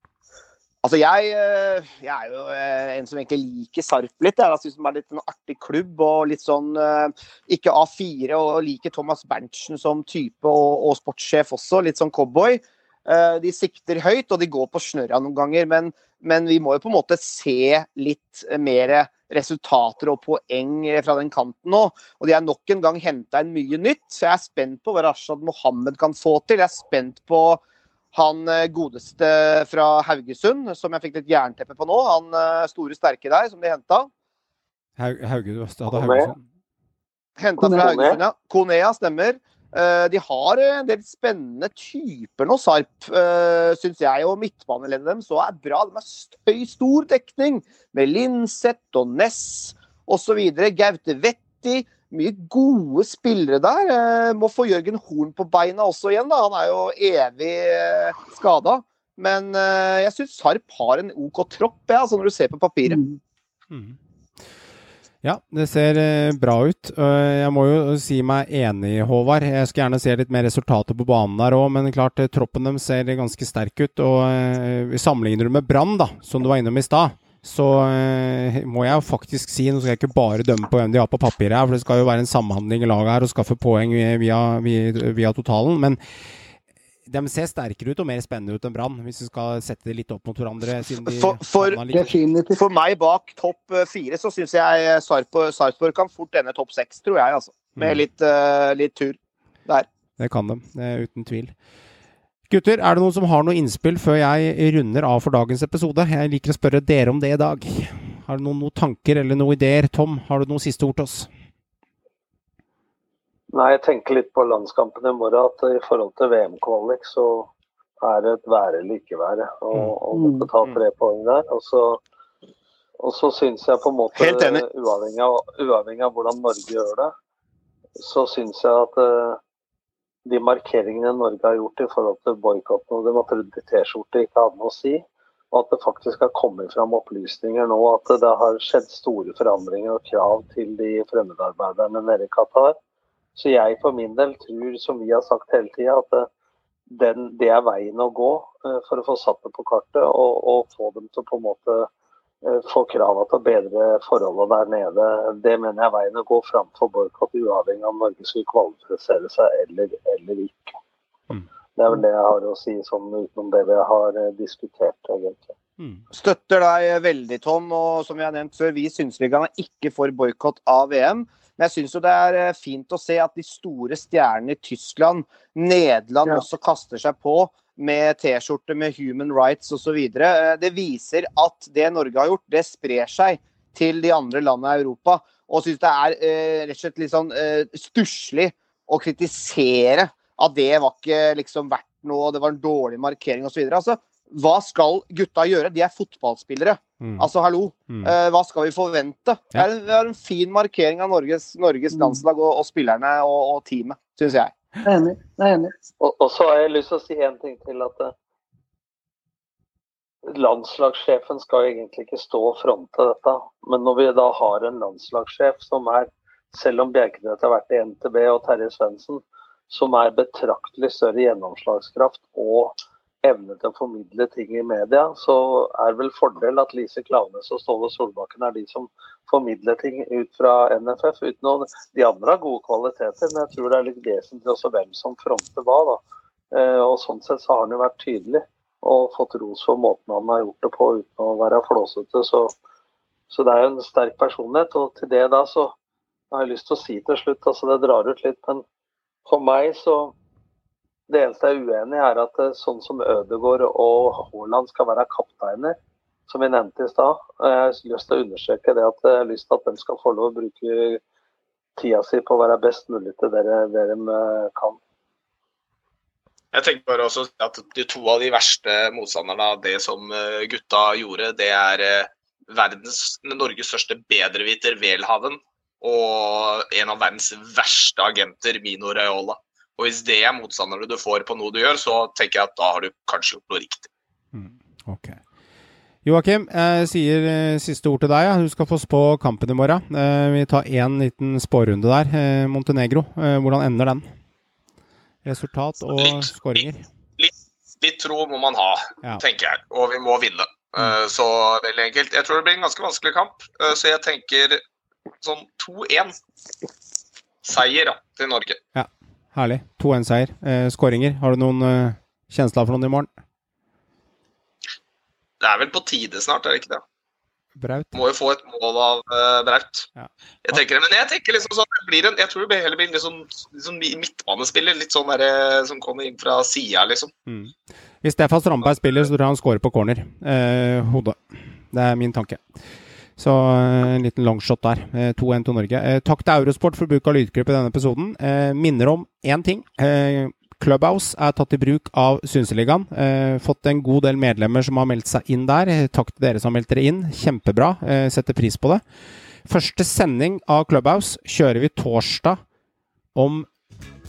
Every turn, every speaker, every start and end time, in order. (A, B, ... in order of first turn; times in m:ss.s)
0:00.8-0:27.6 A
0:28.1-0:34.1 A
0:35.0-0:36.4 B
0:35.9-0:36.3 C
0:37.4-1:03.0 A
0:37.6-0:37.9 D
0:37.6-0:38.2 C
1:02.8-1:03.2 D
1:03.7-1:04.0 B
1:05.2-1:26.0 B
1:27.1-1:32.2 B
1:31.0-1:31.8 A
1:31.9-1:32.6 D
1:32.6-1:39.9 A
1:37.8-1:38.0 B
1:40.2-1:41.5 B
1:42.5-1:51.3 B
1:53.5-1:57.5 C
1:58.0-2:02.0 C
2:00.1-2:00.5 D
2:03.0-2:07.1 C
2:04.2-2:04.6 A
2:08.0-2:09.4 C
2:10.3-2:22.8 C
2:23.4-2:26.3 C
2:26.9-2:31.9 C
2:32.4-2:40.7 C
2:41.8-2:45.5 C
2:46.1-3:24.6 A
3:17.0-3:17.3 B
3:17.9-3:18.1 B
3:21.9-3:22.2 D
3:24.8-3:25.7 D
3:26.0-3:28.1 C
3:30.3-3:56.0 C
3:56.5-4:02.5 C
4:03.3-4:05.7 C
4:06.3-4:08.6 C
4:09.3-4:10.1 C
4:11.1-4:15.8 C
4:16.3-4:21.0 C
4:21.8-4:24.8 C
4:26.5-4:43.9 E
4:44.3-4:45.2 B
4:46.0-4:54.1 B
4:55.2-4:56.8 B
4:56.0-4:56.6 E
4:57.2-5:04.6 E
5:05.2-5:06.1 E
5:07.4-5:08.6 E
5:08.7-5:13.1 B
5:15.4-5:16.8 E
5:17.6-5:18.0 B
5:17.9-5:19.9 E
5:20.0-5:20.6 B
5:20.4-5:27.1 E
5:27.3-5:31.2 B
5:31.7-5:32.4 B
5:33.2-5:48.8 B
5:49.4-5:52.4 B
5:53.1-5:53.5 B